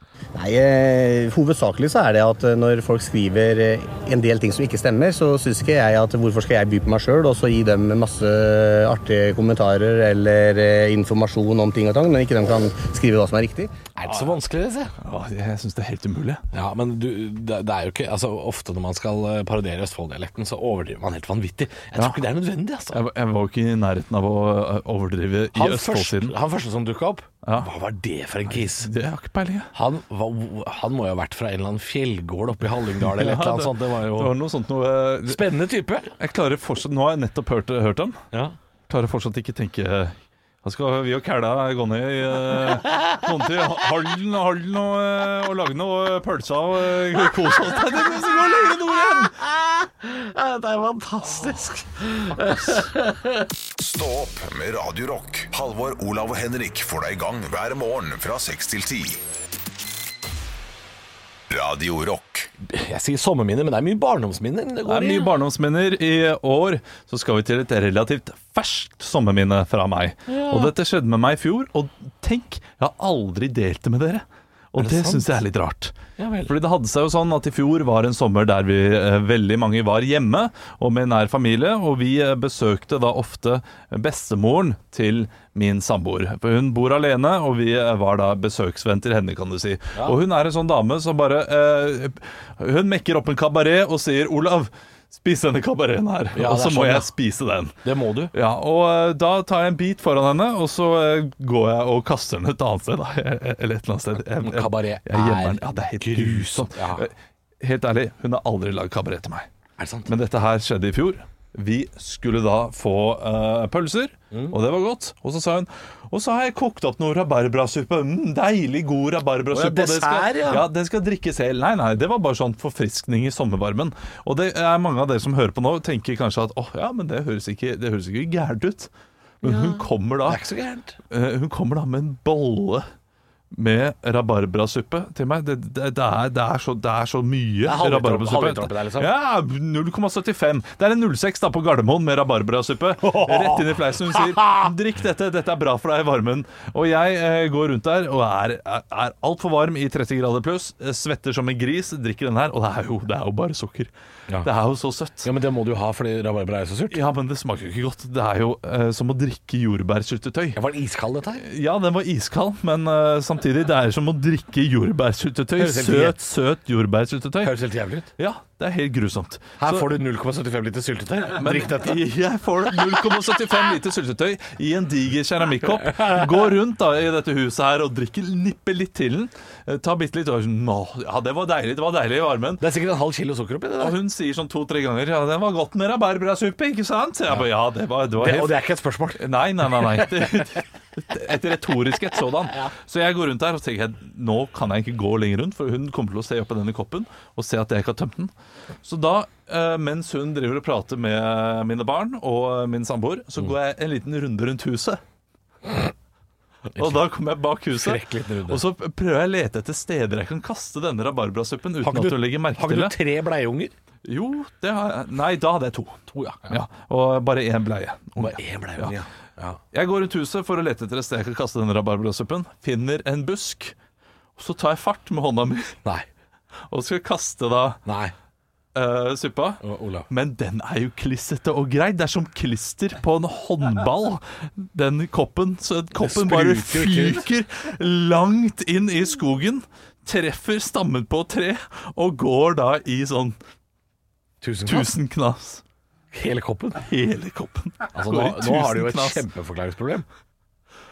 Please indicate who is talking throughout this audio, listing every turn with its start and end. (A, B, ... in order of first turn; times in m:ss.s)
0:00.4-0:13.7 A
0:14.0-0:14.9 B
0:15.0-0:16.4 C
0:16.5-0:23.0 B
0:22.9-0:26.4 C
0:25.5-0:28.9 B
0:28.5-0:29.7 C
0:29.7-0:34.3 B
0:33.0-0:35.4 C
0:35.2-0:36.1 B
0:36.2-0:38.2 C
0:38.9-0:49.3 C
0:47.9-0:48.2 B
0:49.2-0:53.5 B
0:53.8-0:59.2 D
1:01.5-1:02.5 D
1:02.7-1:05.4 B
1:04.9-1:15.9 C
1:10.3-1:10.7 B
1:14.8-1:15.4 B
1:16.2-1:16.6 B
1:16.4-1:37.7 C
1:36.3-1:37.1 B
1:37.8-1:38.3 B
1:38.3-1:49.5 C
1:44.4-1:47.1 B
1:49.8-1:50.2 B
1:50.1-2:08.9 C
1:59.5-2:00.7 B
2:09.4-2:10.4 C
2:09.4-2:11.0 B
2:11.1-2:12.8 C
2:13.5-2:33.9 C
2:17.6-2:19.1 B
2:23.1-2:24.5 B
2:34.4-2:35.3 C
2:35.2-2:37.0 B
2:36.9-2:40.6 C
2:40.5-2:41.4 B
2:41.4-2:47.5 C
2:45.6-2:46.2 B
2:47.4-2:48.1 B
2:48.2-2:49.9 C
2:49.6-2:52.0 B
2:51.4-3:02.6 C
3:02.6-3:04.0 B
3:03.8-3:08.6 C
3:08.2-3:09.2 B
3:09.2-3:18.3 C
3:09.8-3:10.1 B
3:18.8-3:25.0 C
3:26.7-3:27.0 B
3:26.8-3:33.0 C
3:27.7-3:28.6 B
3:31.8-3:33.7 B
3:34.0-3:39.0 C
3:36.1-3:36.6 B
3:38.2-3:39.6 B
3:39.7-3:43.8 C
3:44.4-3:45.8 C
3:46.7-3:47.8 C
3:47.9-3:48.1 B
3:48.8-4:03.4 C
3:49.6-3:50.1 B
3:56.0-3:57.2 B
4:04.4-4:05.0 B
4:04.7-4:05.6 C
4:06.1-4:06.8 B
4:06.8-4:09.2 C
4:07.9-4:10.1 B